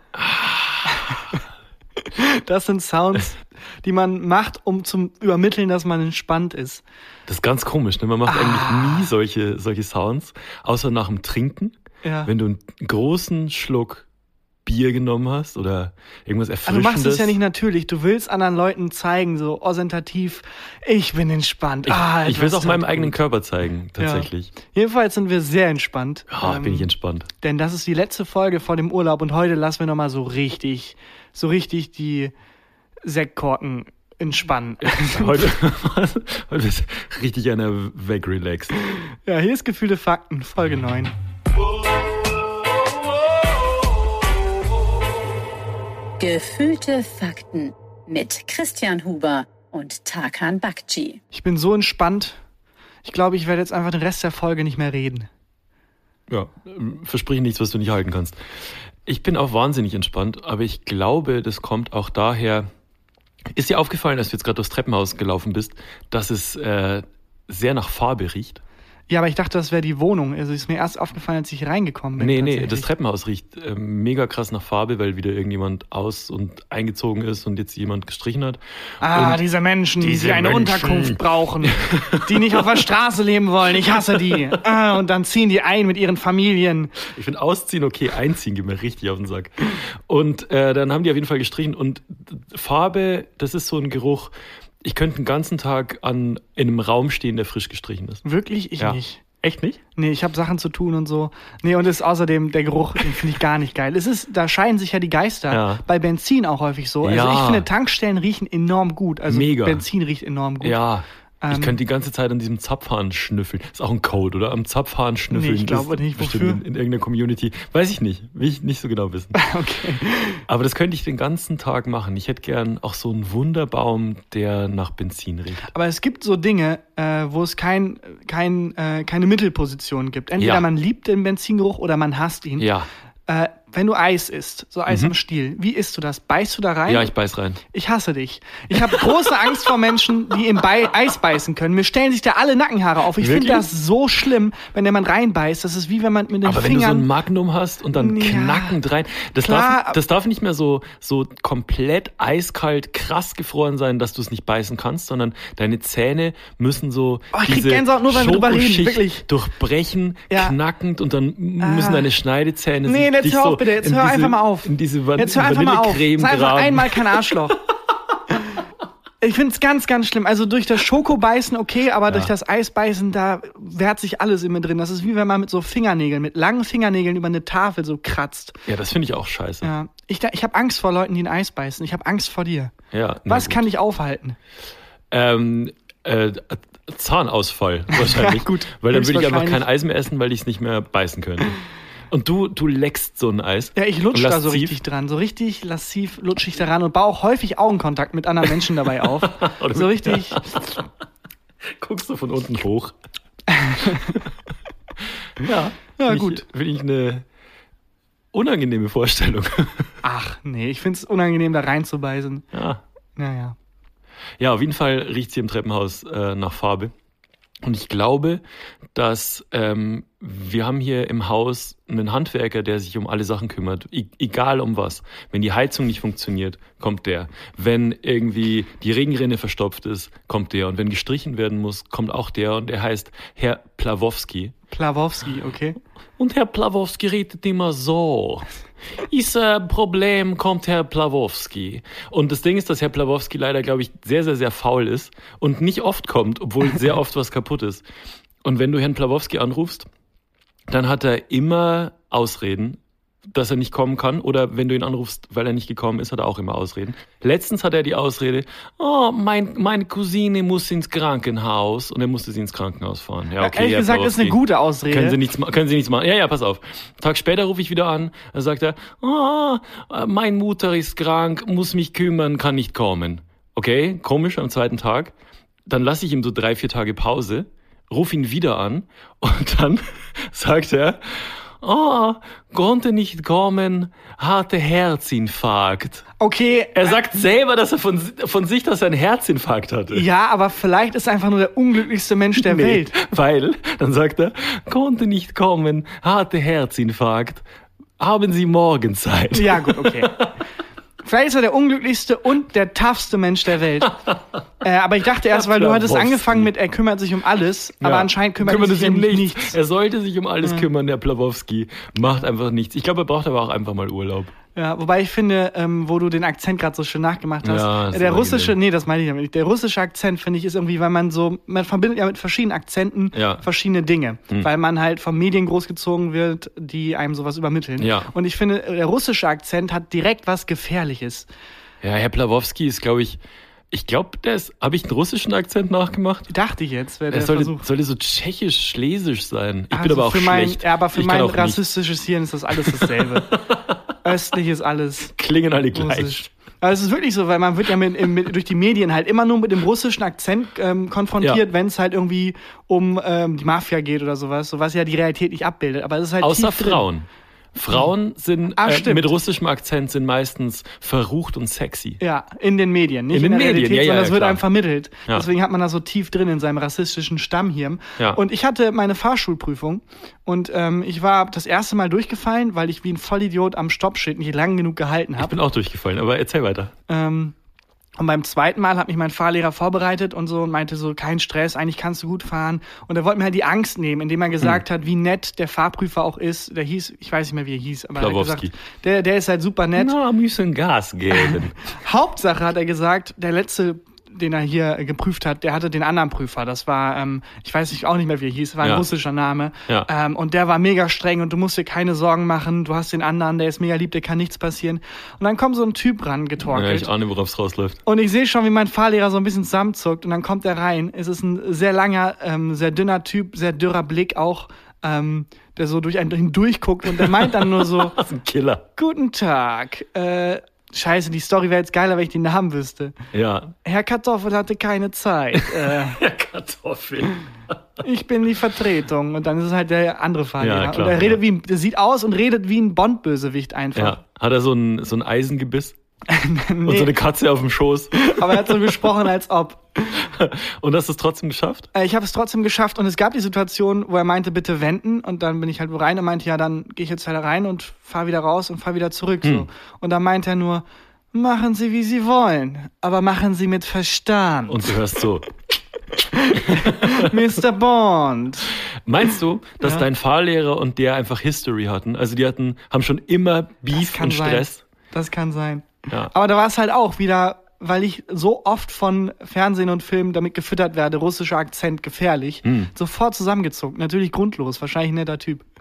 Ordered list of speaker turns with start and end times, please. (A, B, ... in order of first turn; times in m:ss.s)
0:00.1-0:01.2 A
0:00.9-0:01.3 B
0:02.1-0:06.8 B
0:07.3-0:14.1 A
0:08.3-0:09.1 B
0:12.0-0:12.3 B
0:14.7-0:17.4 A
0:16.6-0:23.1 B
0:21.9-0:24.5 A
0:24.0-0:26.9 B
0:26.3-0:27.3 A
0:27.4-0:32.3 B
0:33.0-0:35.5 B
0:34.8-0:38.7 A
0:38.9-0:41.2 B
0:46.2-0:51.2 C
0:51.3-0:52.4 B
0:53.0-0:55.3 B
0:56.3-0:58.4 A
0:59.0-1:02.7 A
1:03.5-1:08.6 A
1:09.1-1:12.9 B
1:12.2-1:19.4 A
1:19.0-1:26.9 B
1:20.0-1:22.8 A
1:24.2-1:24.5 A
1:27.1-1:34.3 A
1:34.8-1:38.2 A
1:38.2-1:39.2 B
1:38.8-1:39.8 A
1:40.0-1:50.8 B
1:45.5-1:45.8 A
1:47.0-1:47.7 A
1:49.3-1:49.8 A
1:50.6-1:59.4 A
1:51.4-1:51.7 B
1:55.3-1:56.6 B
1:59.3-2:00.4 B
2:00.5-2:05.7 A
2:05.7-2:12.7 B
2:10.4-2:10.7 A
2:12.6-2:12.9 A
2:13.3-2:17.1 B
2:14.9-2:15.1 A
2:16.9-2:17.6 A
2:17.7-2:27.1 B
2:18.8-2:19.2 A
2:23.2-2:23.7 A
2:26.4-2:47.4 A
2:28.0-2:28.8 B
2:29.4-2:30.0 B
2:37.3-2:39.2 B
2:40.3-2:40.6 B
2:41.6-2:42.1 B
2:42.8-2:47.6 B
2:49.2-2:58.6 B
2:58.7-2:59.7 A
2:59.6-3:02.7 B
3:02.9-3:03.7 A
3:03.2-3:04.4 B
3:05.1-3:11.6 A
3:07.9-3:09.6 B
3:12.1-3:14.8 A
3:13.8-3:20.6 B
3:19.1-3:20.8 A
3:21.6-3:22.9 A
3:23.5-3:24.2 B
3:24.0-3:24.3 A
3:25.4-3:27.2 A
3:26.0-3:26.4 B
3:28.3-3:29.9 A
3:30.0-3:32.4 B
3:32.5-3:32.8 A
3:33.2-3:33.6 B
3:34.4-3:36.9 A
3:37.6-3:38.4 A
3:38.9-3:54.5 A
3:54.7-3:55.8 B
3:56.2-4:07.8 A
4:08.4-4:09.9 A
4:10.7-4:24.4 A
4:23.4-4:25.2 B
4:24.9-4:35.1 A
4:35.6-4:46.0 A
4:46.2-4:47.0 B
4:46.8-4:50.0 A
4:49.9-4:52.9 B
4:52.4-4:57.4 A
4:58.0-5:00.4 A
4:59.3-5:00.2 B
5:01.0-5:03.9 B
5:03.9-5:04.2 A
5:04.6-5:09.6 B
5:05.3-5:06.5 A
5:07.8-5:14.3 A
5:10.4-5:10.7 B
5:14.6-5:31.3 B
5:17.4-5:18.6 A
5:23.1-5:23.4 A
5:27.8-5:28.1 A
5:31.8-5:33.2 A
5:33.7-5:36.3 A
5:36.3-5:37.6 B
5:37.1-5:41.6 A
5:39.7-5:43.4 B
5:42.6-5:43.6 A
5:44.0-5:45.2 B
5:45.2-5:46.2 A
5:45.7-5:56.8 B
5:56.2-6:02.0 A
5:58.6-5:59.1 B
6:02.0-6:15.4 B
6:03.1-6:04.4 A
6:15.2-6:16.7 A
6:16.9-6:17.3 B
6:18.0-6:30.0 B
6:28.0-6:28.5 A
6:29.8-6:31.6 A
6:31.2-6:46.9 B
6:38.6-6:38.9 A
6:46.4-6:47.8 A
6:47.8-6:58.0 B
6:56.9-6:58.6 A
6:58.8-7:02.9 B
7:03.1-7:03.5 A
7:03.6-7:06.0 B
7:05.3-7:07.2 A
7:07.8-7:14.0 B
7:10.4-7:11.2 A
7:13.8-7:15.8 A
7:16.1-7:16.9 B
7:16.6-7:18.8 A
7:17.9-7:20.0 B
7:20.0-7:21.7 A
7:21.7-7:34.7 B
7:34.5-7:35.3 A
7:36.1-7:38.5 B
7:36.3-7:37.2 A
7:38.7-7:44.6 A
7:39.6-7:39.9 B
7:43.7-7:55.4 B
7:52.4-7:52.7 A